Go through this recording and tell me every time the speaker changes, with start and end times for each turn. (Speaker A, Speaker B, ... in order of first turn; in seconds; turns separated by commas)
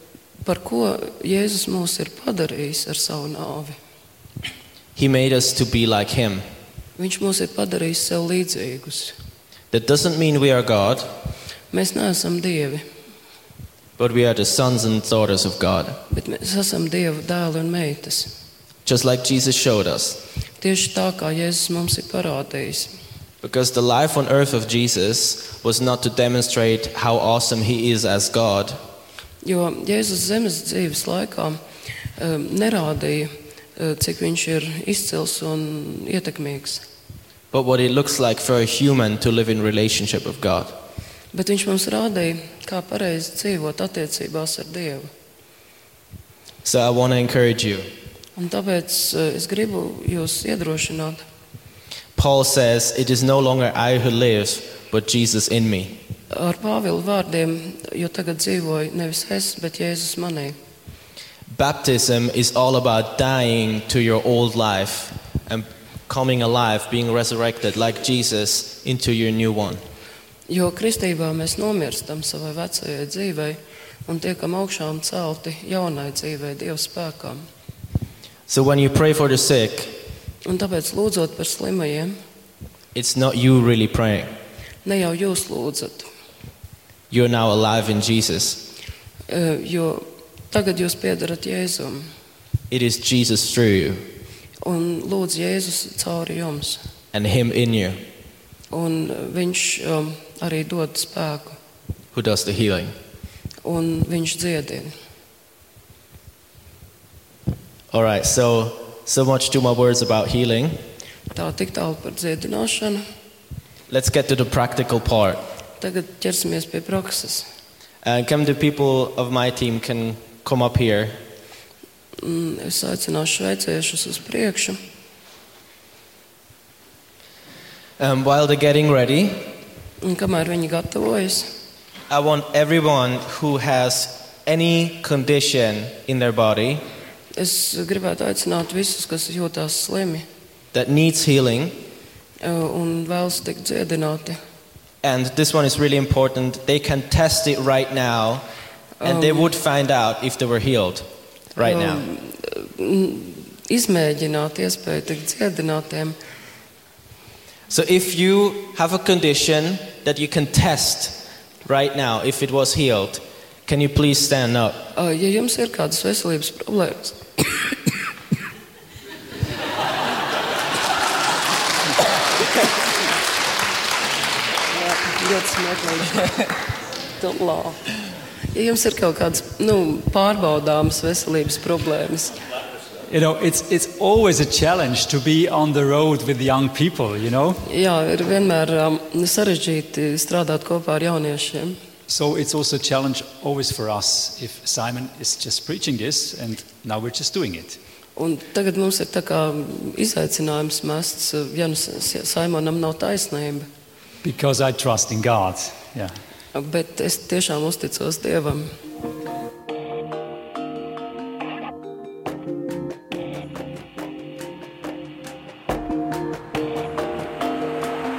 Speaker A: 0.4-3.8, Speaker B: 5.0-6.5, Speaker A: 7.0-9.1, Speaker B: 9.7-11.1, Speaker A: 11.7-12.8, Speaker B: 14.0-16.0, Speaker A: 16.1-18.3, Speaker B: 18.8-20.2, Speaker A: 20.6-22.9, Speaker B: 23.4-28.8, Speaker A: 29.4-31.6, Speaker A: 32.2-36.8, Speaker B: 37.5-40.7, Speaker A: 41.3-45.1, Speaker B: 46.6-47.9, Speaker A: 48.4-51.2, Speaker B: 52.1-56.0, Speaker A: 56.3-60.5, Speaker B: 61.5-69.8, Speaker A: 70.5-77.5, Speaker B: 78.5-80.0, Speaker A: 80.4-82.2, Speaker B: 82.9-84.3, Speaker A: 84.8-86.1, Speaker B: 87.1-88.6, Speaker A: 89.3-92.1, Speaker B: 92.7-94.0, Speaker A: 94.6-96.8, Speaker B: 97.1-98.0, Speaker A: 98.7-101.5, Speaker B: 102.1-102.9, Speaker A: 103.6-104.9, Speaker B: 107.9-110.8, Speaker A: 111.3-113.0, Speaker B: 113.9-115.4, Speaker A: 115.8-117.5, Speaker B: 118.0-121.2, Speaker A: 122.2-124.8, Speaker B: 128.0-129.5, Speaker A: 130.0-131.5, Speaker B: 132.1-136.8, Speaker A: 137.3-140.2, Speaker B: 140.7-141.8, Speaker A: 142.4-144.4, Speaker B: 145.0-148.4, Speaker A: 149.0-149.5, Speaker B: 149.0-152.0, Speaker A: 151.6-156.2, Speaker B: 157.7-164.8, Speaker A: 164.9-167.6, Speaker A: 174.7-176.3, Speaker A: 177.2-177.8, Speaker A: 178.5-182.3, Speaker C: 183.1-187.6, Speaker A: 187.7-191.8, Speaker C: 192.1-197.8, Speaker A: 198.2-203.7, Speaker C: 204.2-206.1, Speaker A: 206.5-208.7